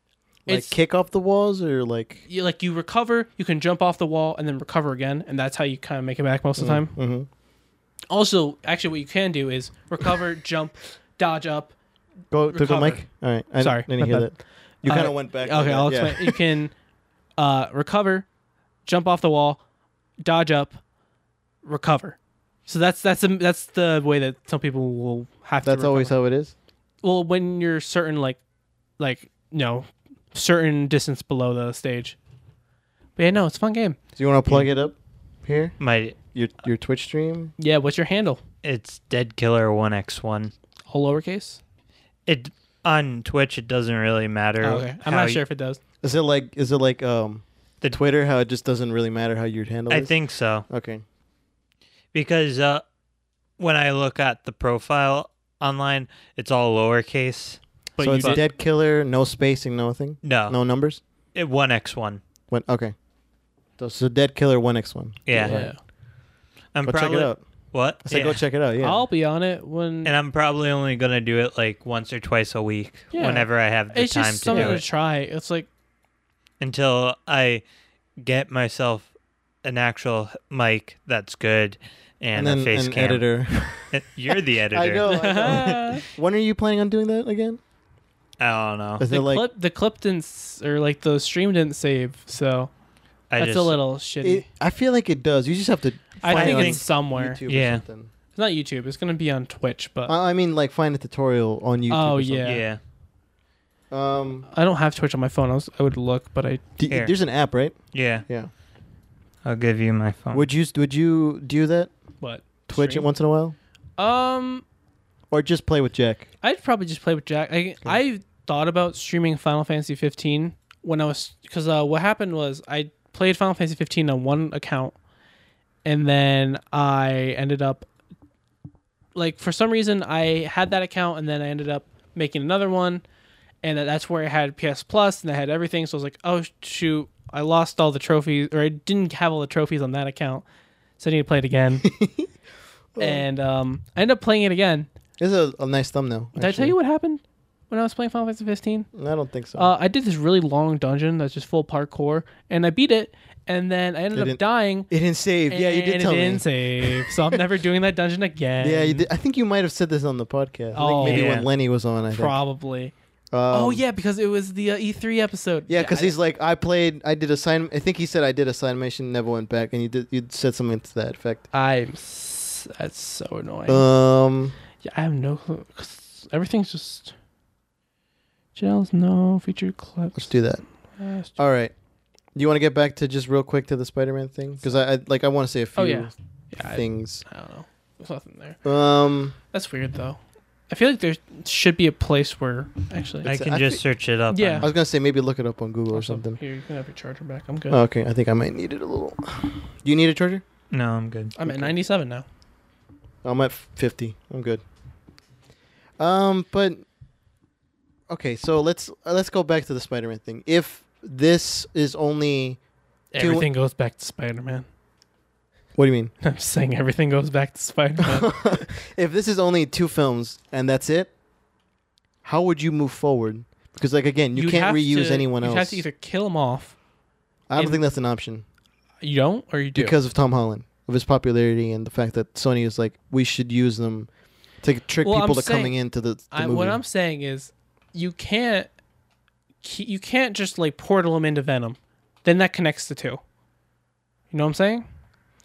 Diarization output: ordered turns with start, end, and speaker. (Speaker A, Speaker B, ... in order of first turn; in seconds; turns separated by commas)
Speaker A: 0.5-2.2, Speaker B: 0.5-0.8, Speaker B: 2.3-7.0, Speaker A: 6.6-7.3, Speaker B: 8.1-11.8, Speaker A: 12.3-16.4, Speaker B: 12.5-13.0, Speaker B: 13.6-16.7, Speaker B: 17.4-18.3, Speaker B: 18.9-19.6, Speaker B: 20.2-20.8, Speaker B: 21.6-26.1, Speaker A: 25.6-26.5, Speaker B: 27.0-28.4, Speaker B: 29.0-32.2, Speaker B: 33.2-34.7, Speaker A: 34.2-35.8, Speaker C: 35.8-36.2, Speaker A: 36.3-37.5, Speaker B: 37.6-38.4, Speaker C: 38.6-40.5, Speaker B: 40.9-41.6, Speaker C: 42.3-45.4, Speaker B: 44.6-45.8, Speaker A: 46.0-50.1, Speaker C: 49.9-50.6, Speaker A: 50.7-51.0, Speaker C: 52.1-52.8, Speaker C: 53.6-57.6, Speaker B: 58.0-58.4, Speaker A: 58.0-61.0, Speaker C: 60.2-60.6, Speaker C: 61.4-62.2, Speaker A: 62.5-63.0, Speaker A: 63.8-65.7, Speaker C: 65.3-65.7, Speaker B: 65.3-65.8, Speaker C: 66.8-68.4, Speaker A: 66.8-67.4, Speaker A: 68.0-69.0, Speaker B: 68.8-70.1, Speaker C: 70.0-74.8, Speaker B: 73.1-75.7, Speaker A: 74.5-74.8, Speaker C: 76.6-77.6, Speaker C: 78.2-79.1, Speaker C: 79.6-85.8, Speaker A: 82.3-87.6, Speaker B: 85.1-86.0, Speaker C: 88.4-89.0, Speaker A: 89.0-89.5, Speaker B: 89.1-92.7, Speaker C: 93.3-93.8, Speaker B: 93.4-94.5, Speaker A: 94.2-98.1, Speaker B: 96.2-97.4, Speaker C: 96.3-96.8, Speaker C: 97.5-97.8, Speaker B: 98.3-100.1, Speaker A: 100.1-102.6, Speaker B: 101.9-102.6, Speaker C: 102.4-102.8, Speaker A: 103.9-104.5, Speaker B: 104.5-106.6, Speaker A: 106.8-108.5, Speaker C: 106.9-107.1, Speaker C: 107.9-108.2, Speaker C: 109.5-110.5, Speaker A: 110.3-111.9, Speaker B: 112.2-113.1, Speaker A: 112.7-113.5, Speaker B: 114.0-114.7, Speaker A: 115.3-116.3, Speaker B: 116.4-125.0, Speaker B: 125.8-127.9, Speaker B: 129.2-133.0, Speaker B: 133.6-140.4, Speaker B: 141.0-141.9, Speaker A: 141.8-142.3, Speaker A: 142.9-143.3, Speaker B: 143.0-144.9, Speaker A: 145.2-146.8, Speaker B: 146.4-148.9, Speaker A: 148.9-149.7, Speaker B: 149.6-154.9, Speaker A: 154.1-157.2, Speaker B: 155.5-159.1, Speaker A: 158.6-162.4, Speaker B: 160.7-161.3, Speaker C: 161.1-161.5, Speaker B: 162.1-162.9, Speaker A: 163.3-163.8, Speaker B: 163.5-166.1, Speaker A: 165.7-171.4, Speaker B: 171.5-173.9, Speaker A: 173.7-174.6, Speaker B: 174.8-177.1, Speaker B: 178.6-180.3, Speaker A: 180.2-180.6, Speaker B: 181.0-181.4, Speaker A: 181.4-181.7, Speaker A: 182.3-187.2, Speaker B: 185.8-188.6, Speaker A: 188.6-189.4, Speaker B: 189.5-193.3, Speaker C: 193.2-194.7, Speaker A: 193.3-193.8, Speaker B: 194.3-194.7, Speaker A: 194.6-196.4, Speaker B: 195.9-197.8, Speaker A: 197.7-200.4, Speaker C: 200.7-201.3, Speaker B: 201.4-202.2, Speaker A: 201.4-201.7, Speaker A: 203.2-204.6, Speaker A: 206.0-206.8, Speaker A: 208.1-212.6, Speaker B: 213.1-214.7, Speaker A: 213.2-213.5, Speaker A: 215.8-216.1, Speaker B: 216.2-218.7, Speaker A: 218.0-221.1, Speaker A: 222.2-225.8, Speaker B: 224.3-226.8, Speaker A: 227.5-228.4, Speaker B: 229.0-230.0, Speaker A: 229.8-234.1, Speaker A: 234.6-236.8, Speaker B: 235.0-235.8, Speaker B: 236.3-238.7, Speaker B: 239.6-243.2, Speaker B: 244.3-244.9